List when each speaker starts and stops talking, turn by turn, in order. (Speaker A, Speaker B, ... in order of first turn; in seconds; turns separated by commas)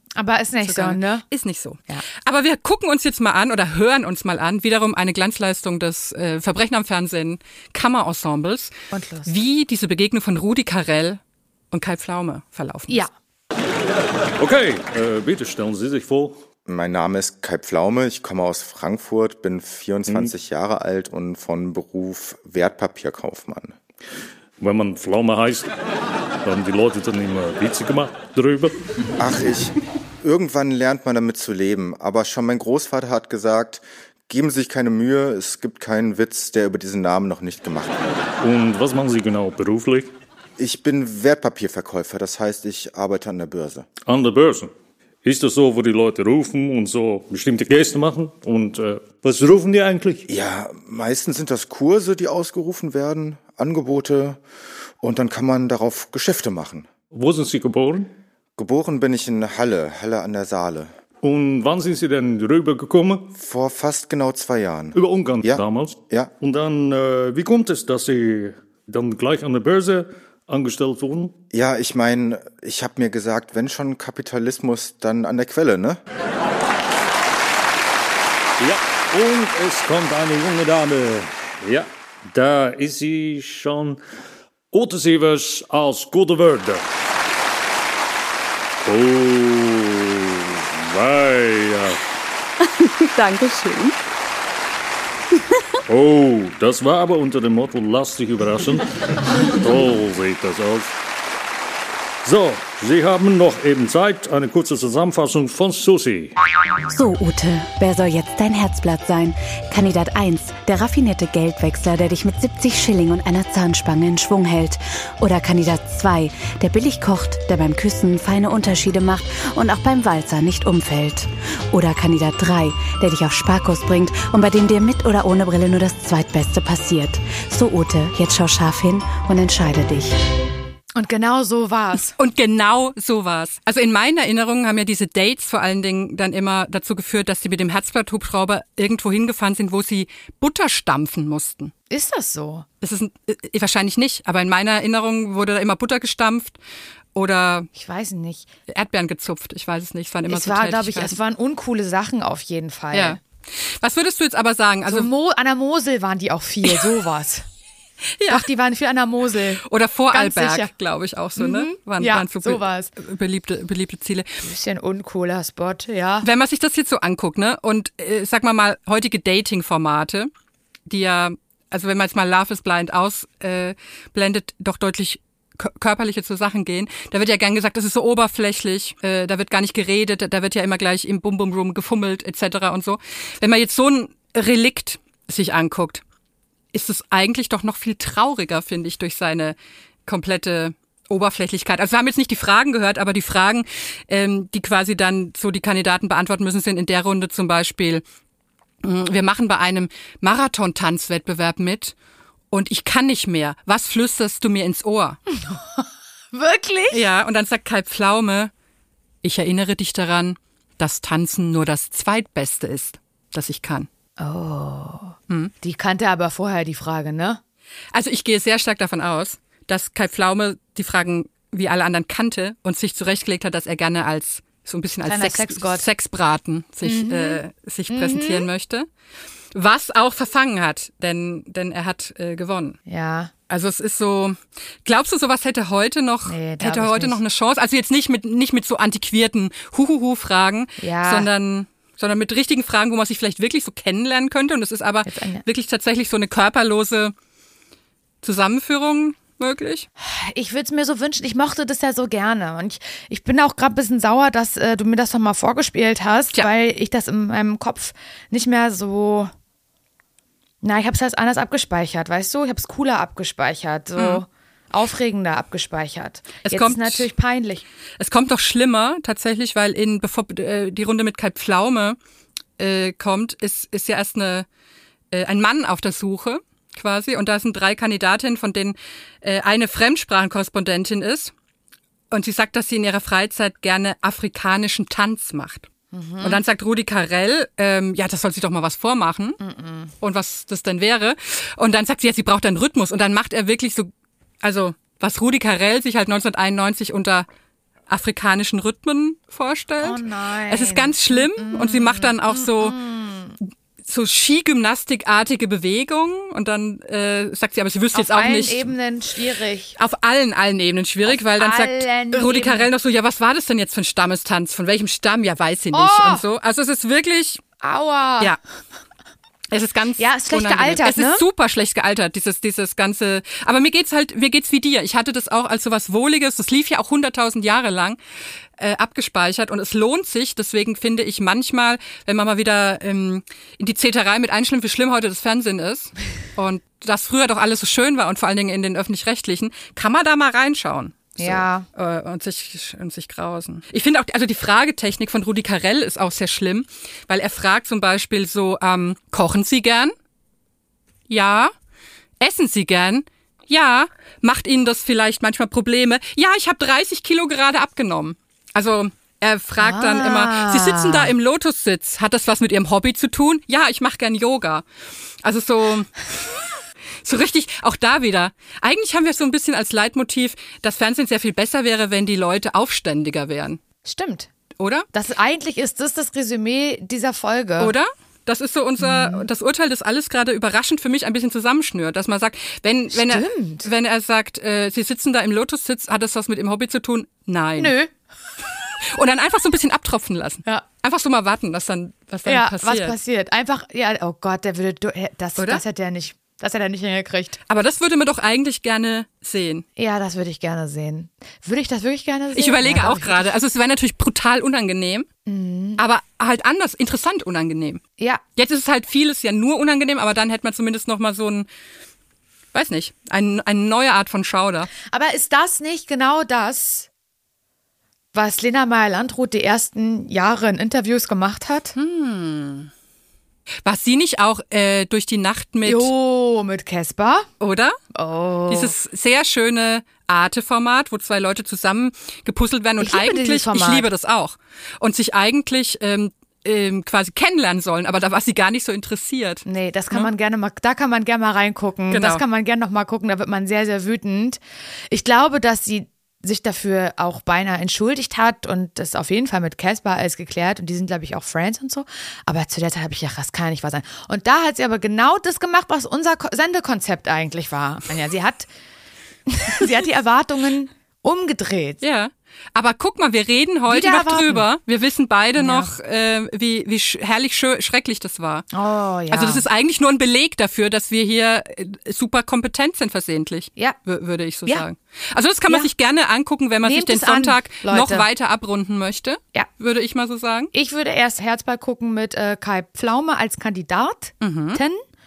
Speaker A: 0.2-1.2, Speaker B: 0.6-8.7, Speaker A: 8.9-9.3, Speaker B: 9.2-11.2, Speaker B: 11.7-13.1, Speaker C: 14.4-16.4, Speaker D: 16.6-23.8, Speaker C: 24.6-25.7, Speaker C: 26.4-28.8, Speaker D: 29.2-38.2, Speaker C: 38.4-40.1, Speaker D: 40.6-43.9, Speaker C: 44.0-44.7, Speaker C: 45.2-50.2, Speaker D: 50.3-54.4, Speaker D: 55.0-56.9, Speaker C: 57.1-58.1, Speaker D: 58.6-60.9, Speaker C: 61.2-63.3, Speaker D: 63.3-66.3, Speaker C: 65.0-71.3, Speaker D: 71.5-76.0, Speaker C: 78.6-84.0, Speaker C: 84.7-86.9, Speaker C: 88.8-92.0, Speaker E: 92.8-94.0, Speaker C: 95.9-101.0, Speaker C: 102.2-106.3, Speaker E: 106.9-130.2, Speaker A: 130.9-132.2, Speaker B: 132.2-141.7, Speaker A: 141.9-142.7, Speaker B: 142.8-146.6, Speaker B: 147.2-147.7, Speaker A: 147.7-148.5, Speaker B: 148.7-151.2, Speaker A: 150.3-153.2, Speaker B: 152.9-155.1, Speaker A: 154.9-157.5, Speaker B: 156.6-156.9, Speaker B: 158.2-158.4, Speaker A: 158.3-160.7, Speaker B: 159.6-164.3, Speaker A: 161.4-162.9, Speaker A: 164.4-166.3, Speaker B: 166.2-170.3, Speaker B: 170.9-186.0, Speaker B: 186.7-198.0, Speaker B: 198.8-201.9, Speaker B: 202.5-205.2, Speaker A: 205.3-207.0, Speaker B: 206.9-208.5, Speaker B: 209.2-213.9, Speaker A: 214.2-217.4, Speaker B: 217.9-228.9, Speaker A: 225.1-225.9, Speaker A: 226.8-228.5, Speaker B: 229.5-232.8, Speaker A: 232.9-233.3, Speaker B: 233.5-247.1, Speaker A: 236.3-237.2, Speaker A: 240.8-241.3, Speaker A: 245.1-245.4, Speaker B: 248.2-249.9, Speaker A: 250.0-259.3, Speaker A: 260.6-267.6, Speaker B: 264.0-264.2, Speaker B: 266.4-267.1, Speaker B: 268.0-272.0, Speaker B: 272.6-274.5, Speaker B: 275.1-281.3, Speaker B: 282.1-285.7, Speaker A: 285.9-286.4, Speaker B: 286.2-289.4, Speaker A: 289.4-289.9, Speaker B: 290.0-293.9, Speaker B: 294.4-297.3, Speaker B: 297.9-302.8, Speaker A: 299.8-303.4, Speaker B: 303.9-308.7, Speaker A: 307.9-309.8, Speaker B: 309.8-317.4, Speaker A: 311.1-312.7, Speaker A: 315.7-316.2, Speaker A: 317.6-318.4, Speaker B: 319.5-328.0, Speaker A: 320.0-321.2, Speaker B: 328.6-349.9, Speaker A: 341.2-341.7, Speaker B: 351.1-351.5, Speaker B: 352.2-364.6, Speaker A: 359.6-361.1, Speaker B: 365.2-365.9, Speaker B: 367.0-373.6, Speaker A: 373.8-374.3, Speaker B: 374.6-374.9, Speaker A: 374.9-377.8, Speaker B: 377.6-387.8, Speaker A: 378.8-379.3, Speaker A: 382.9-383.7, Speaker A: 387.6-387.9, Speaker B: 388.9-393.0, Speaker A: 392.3-397.4, Speaker B: 395.4-395.6, Speaker B: 397.5-399.6, Speaker A: 399.8-403.4, Speaker B: 402.4-405.1, Speaker A: 405.3-405.8, Speaker B: 405.8-407.8, Speaker B: 408.4-411.5, Speaker B: 412.5-414.7, Speaker A: 414.8-416.9, Speaker A: 418.1-421.7, Speaker B: 421.8-422.7, Speaker B: 423.6-425.9, Speaker A: 425.6-427.3, Speaker B: 427.4-427.8, Speaker A: 427.9-428.8, Speaker B: 428.5-440.1, Speaker A: 432.8-433.9, Speaker A: 439.5-458.5, Speaker B: 441.9-442.2, Speaker A: 459.3-461.8, Speaker B: 461.8-468.5, Speaker A: 463.7-464.5, Speaker A: 465.4-465.7, Speaker A: 468.5-469.4, Speaker B: 469.1-480.5, Speaker A: 476.6-478.1, Speaker A: 480.5-484.8, Speaker B: 484.2-484.6